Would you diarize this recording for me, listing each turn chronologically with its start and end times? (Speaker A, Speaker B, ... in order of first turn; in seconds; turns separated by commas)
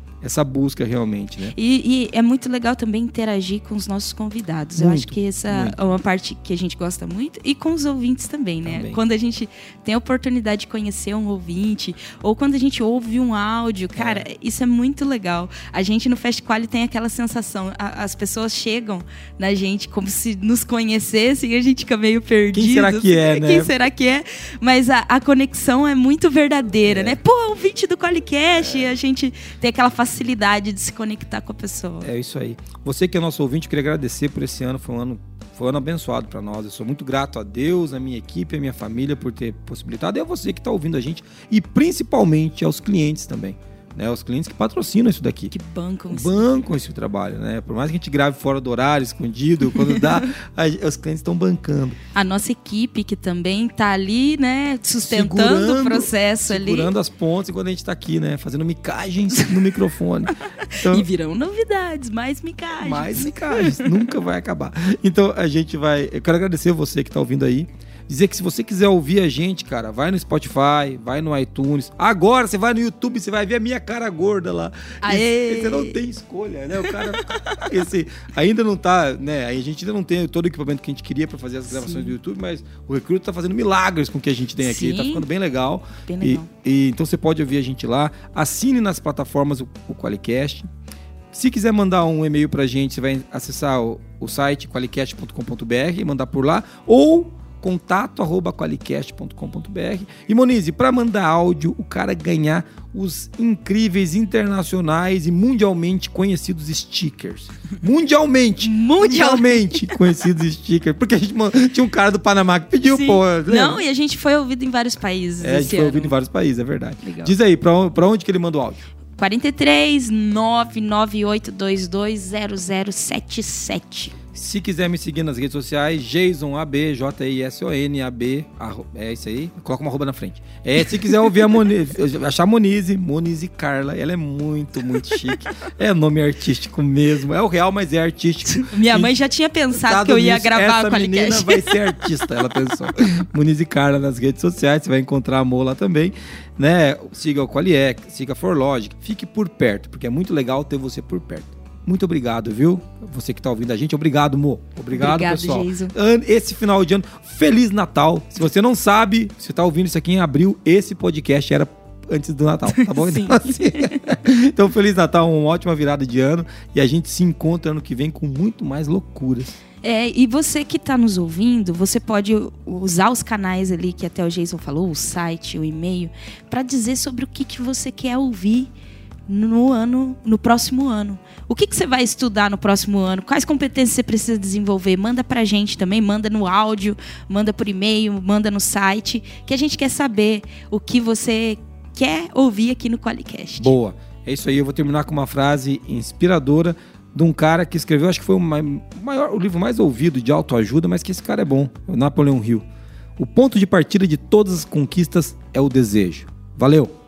Speaker A: 0.2-1.6, Speaker B: 1.5-32.1, Speaker A: 4.8-5.8, Speaker A: 8.6-9.0, Speaker A: 14.0-14.3, Speaker A: 22.5-23.7, Speaker A: 26.9-27.2, Speaker A: 28.6-28.9, Speaker A: 32.0-45.5, Speaker B: 45.5-46.6, Speaker A: 46.1-52.0, Speaker B: 49.7-50.3, Speaker B: 52.1-56.9, Speaker A: 55.0-61.1, Speaker B: 60.6-64.1, Speaker A: 62.8-90.7, Speaker B: 75.0-76.0, Speaker B: 76.8-77.6, Speaker B: 81.7-82.2, Speaker B: 84.6-85.3, Speaker B: 86.1-86.5, Speaker A: 91.3-113.8, Speaker B: 108.6-110.0, Speaker B: 112.9-116.2, Speaker A: 115.4-118.9, Speaker B: 117.0-117.3, Speaker B: 119.2-124.1, Speaker A: 124.3-139.2, Speaker B: 138.4-142.0, Speaker A: 139.7-169.6, Speaker B: 154.9-155.9, Speaker B: 162.7-164.1, Speaker B: 169.8-178.7, Speaker B: 179.3-193.8, Speaker A: 193.6-202.7, Speaker A: 203.2-206.9